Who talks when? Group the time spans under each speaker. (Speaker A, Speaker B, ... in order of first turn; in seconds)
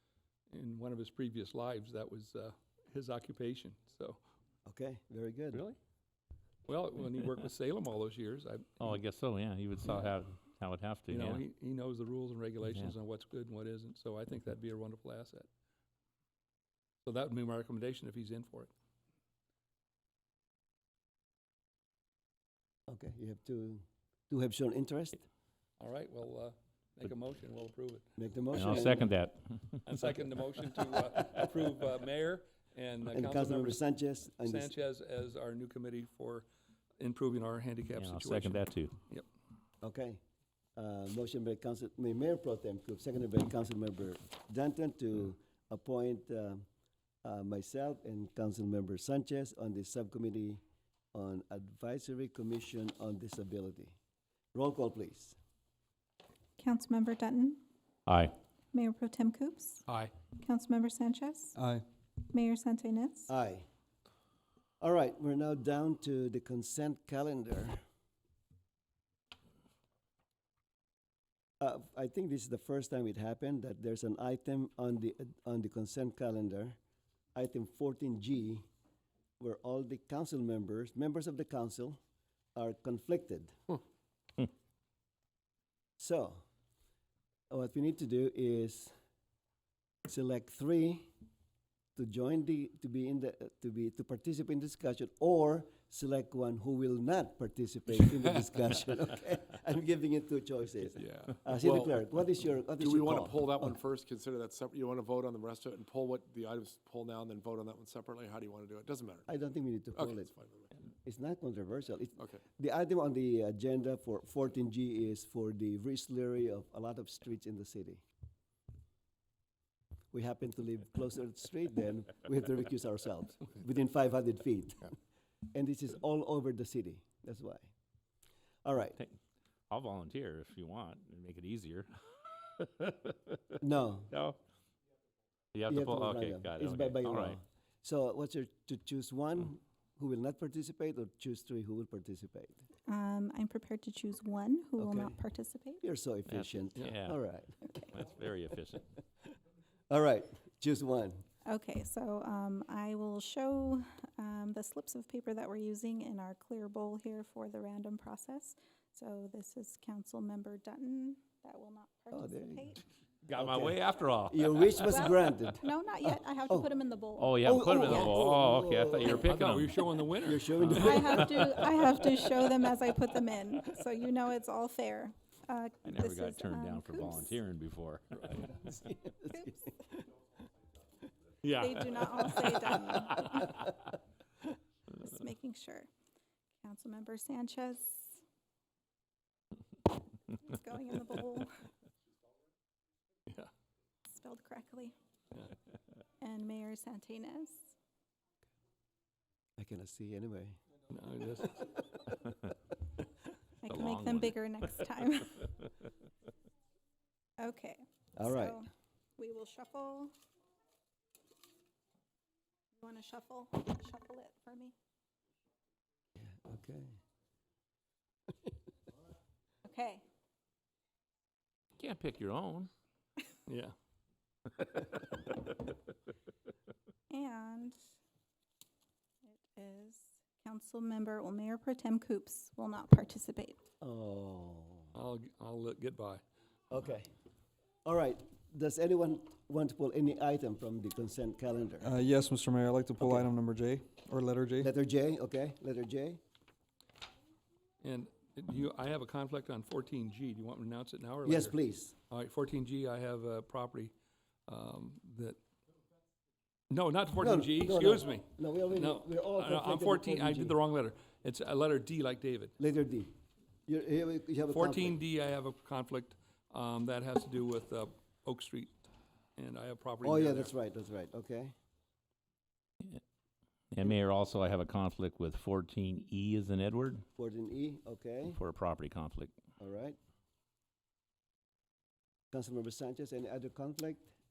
Speaker A: 0.5-4.2, 6.7-8.8, 11.1-15.5, 17.0-18.7, 25.8-28.0, 29.8-33.8, 34.3-36.5, 37.0-39.2, 59.9-60.1, 169.1-171.3, 178.1-178.5, 181.4-183.2, 200.9-201.8, 223.5-223.7, 234.9-236.2, 247.8-251.6, 252.1-253.9, 254.5-255.4, 256.7-262.5, 264.5-268.7, 269.4-270.5
Speaker B: 4.7-5.6, 22.9-25.2, 28.2-29.1, 33.1-34.7, 39.8-40.2, 40.8-46.6, 47.2-50.6, 51.1-54.0, 54.5-55.4, 63.3-63.6, 64.8-67.8, 71.6-76.8, 77.3-78.6, 79.4-82.0, 82.5-83.5, 86.0-86.4, 87.5-88.9, 90.0-91.1, 92.0-103.8, 109.2-110.3, 111.0-118.0, 120.1-125.0, 125.5-127.7, 128.6-129.0, 133.6-134.1, 135.7-142.6, 144.8-145.2, 145.8-147.8, 149.9-151.2, 162.1-162.8, 163.3-163.8, 164.3-166.7, 167.4-169.2, 170.2-171.4, 178.5-179.5, 199.6-200.6, 208.2-208.6, 216.2-217.0, 233.8-234.9, 236.7-237.1, 237.8-241.9, 243.0-243.3, 244.6-246.2, 251.2-251.9, 257.2-260.6, 262.6-263.1, 263.7-264.9, 270.0-271.5, 277.2-278.4, 279.6-280.0, 282.3-284.1
Speaker C: 5.5-5.8, 8.8-11.4, 12.7-12.9, 28.5-30.1, 38.0-38.9, 58.1-58.3, 129.7-131.9, 132.6-133.4, 134.1-134.3, 135.5-137.4, 146.3-147.2, 147.8-148.9, 163.3-164.8, 167.2-170.9, 175.8-178.0, 203.7-204.4, 221.8-222.7, 273.7-277.0, 278.3-279.3
Speaker D: 56.6-57.6, 58.7-59.8, 60.4-61.5, 62.2-63.3, 142.9-145.8, 151.4-162.8, 164.9-168.3, 170.7-177.4, 179.3-179.7, 181.6-183.7, 184.9-185.9, 186.6-188.2, 190.2-191.5, 194.1-194.9, 196.2-197.7, 203.6-205.6, 207.4-210.1, 212.8-214.7, 219.6-220.0, 227.1-227.8, 229.2-233.6
Speaker E: 61.5-61.8, 241.8-244.7
Speaker F: 101.1-102.0, 102.8-109.3, 109.9-110.7